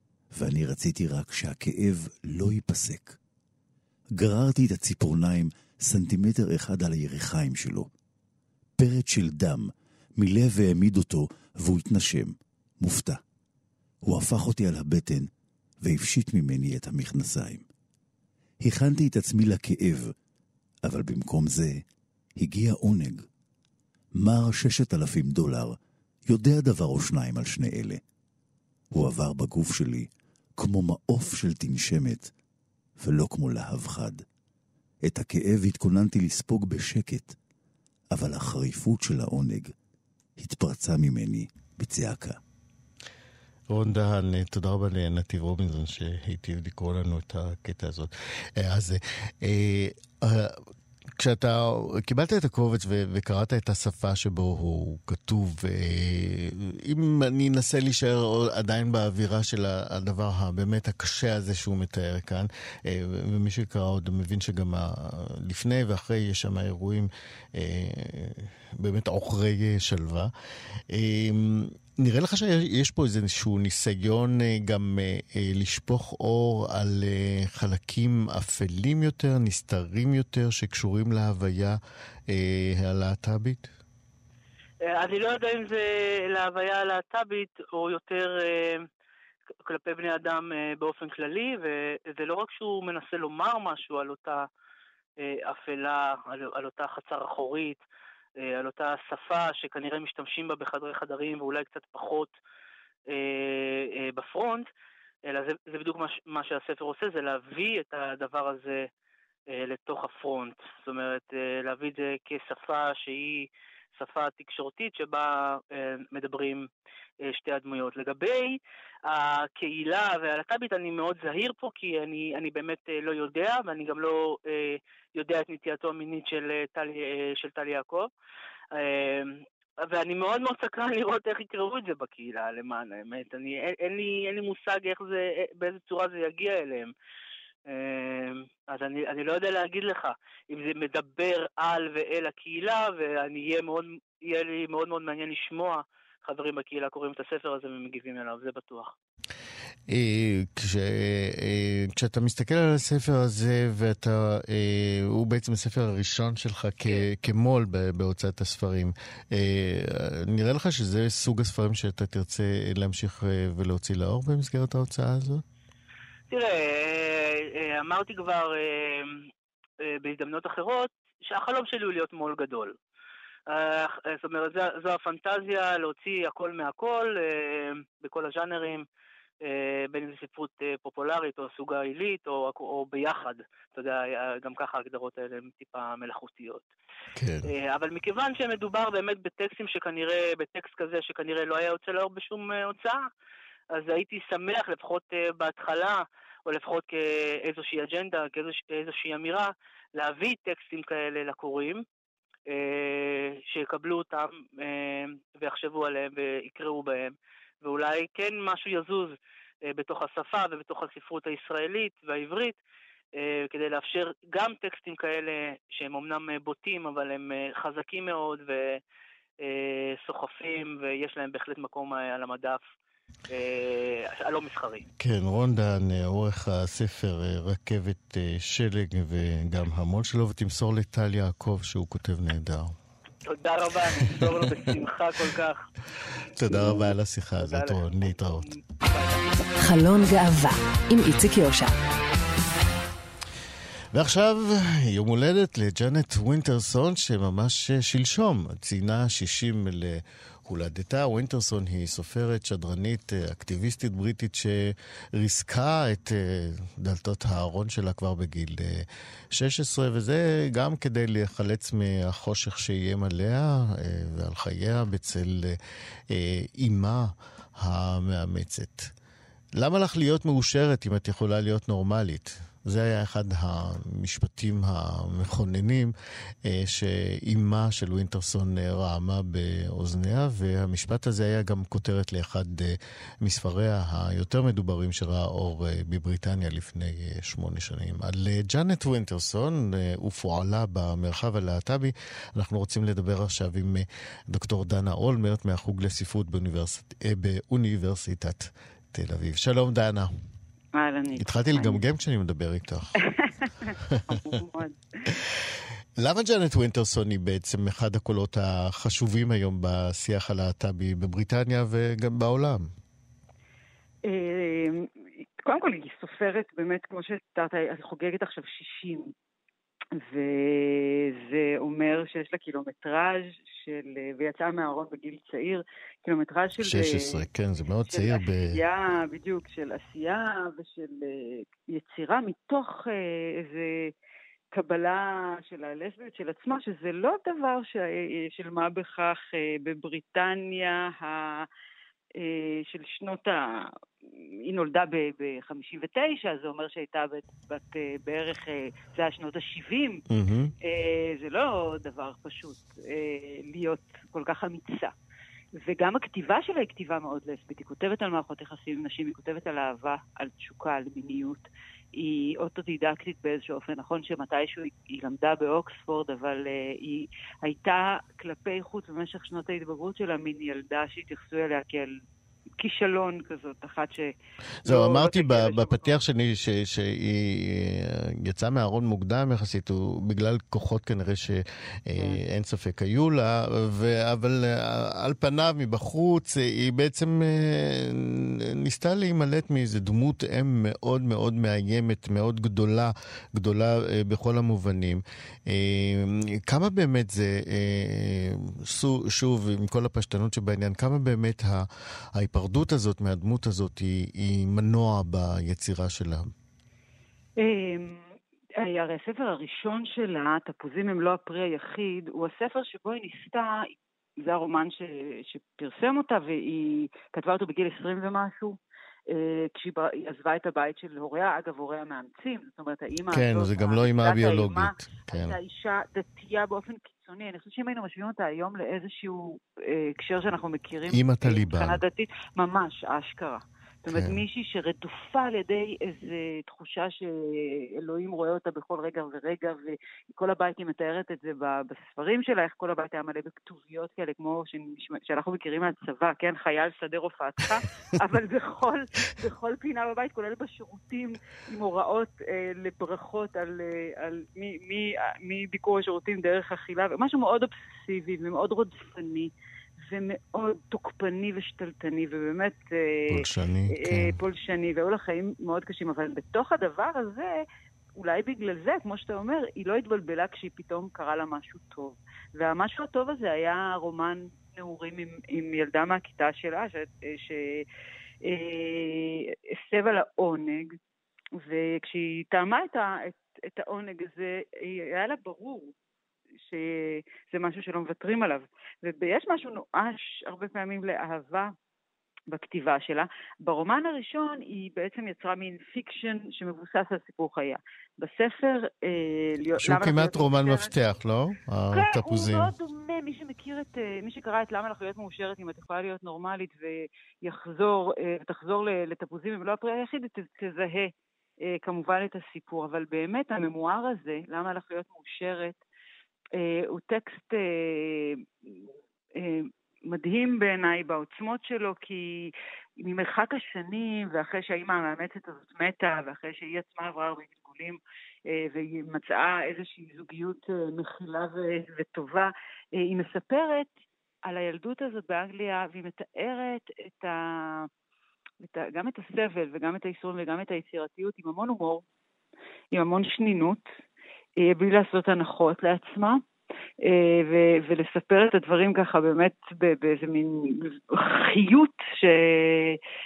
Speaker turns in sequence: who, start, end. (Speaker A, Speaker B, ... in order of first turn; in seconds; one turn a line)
Speaker A: 0.3-3.2
Speaker A: 4.2-7.9
Speaker A: 8.8-13.2
Speaker A: 14.0-15.3
Speaker A: 15.8-17.6
Speaker A: 18.6-20.1
Speaker A: 20.8-21.8
Speaker A: 22.4-23.2
Speaker A: 24.2-28.0
Speaker A: 28.9-32.3
Speaker A: 33.0-34.2
Speaker A: 35.0-37.4
Speaker A: 38.1-39.7
Speaker A: 40.4-42.4
Speaker B: 43.7-50.6
Speaker B: 51.2-70.3
Speaker B: 70.9-83.7
Speaker C: 84.9-88.9
Speaker C: 89.6-94.5
Speaker C: 95.2-97.8
Speaker C: 98.4-102.3
Speaker C: 103.1-104.7
Speaker C: 105.2-108.9
Speaker C: 109.5-116.7
Speaker C: 117.2-128.1
Speaker C: 128.7-136.9
Speaker C: 137.7-148.9
Speaker B: 149.9-165.4
Speaker C: 166.3-169.3
Speaker C: 169.8-172.8
Speaker C: 173.5-178.8
Speaker C: 179.4-186.7
Speaker B: 187.2-187.5
Speaker C: 187.4-193.1
Speaker C: 193.7-201.8
Speaker C: 202.5-209.2
Speaker C: 209.7-212.6
Speaker C: 213.2-218.8
Speaker C: 219.4-222.6
Speaker C: 223.3-224.8
Speaker B: 225.0-232.8
Speaker C: 233.2-235.6
Speaker B: 236.3-238.4
Speaker C: 236.4-239.5
Speaker D: 239.6-241.7
Speaker B: 243.9-265.6
Speaker B: 266.1-268.9
Speaker B: 269.6-275.9
Speaker B: 276.4-300.1
Speaker E: 300.7-301.8
Speaker B: 301.2-302.9
Speaker E: 303.1-304.8
Speaker B: 306.0-312.7
Speaker E: 314.1-314.9
Speaker E: 315.4-319.1
Speaker E: 320.0-327.2
Speaker B: 326.6-328.5
Speaker E: 327.9-333.9
Speaker E: 334.5-341.5
Speaker E: 342.2-343.7
Speaker E: 344.4-350.0
Speaker B: 350.1-350.5
Speaker E: 350.6-354.9
Speaker E: 355.6-372.0
Speaker E: 372.6-374.1
Speaker B: 374.6-406.3
Speaker E: 374.6-375.9
Speaker E: 407.4-408.0
Speaker E: 408.6-418.6
Speaker E: 419.1-467.4
Speaker B: 423.1-425.4
Speaker B: 430.9-431.8
Speaker B: 433.9-434.2
Speaker B: 463.1-464.1
Speaker E: 468.0-477.6
Speaker E: 478.2-480.8
Speaker E: 481.4-485.7
Speaker E: 486.4-491.5
Speaker E: 492.3-500.7
Speaker B: 499.6-502.5
Speaker E: 501.7-510.9
Speaker E: 511.4-515.6
Speaker E: 516.4-518.2
Speaker E: 519.1-533.7
Speaker E: 534.2-537.7
Speaker E: 538.4-541.8
Speaker E: 542.7-543.6
Speaker E: 544.4-546.2
Speaker E: 546.8-552.8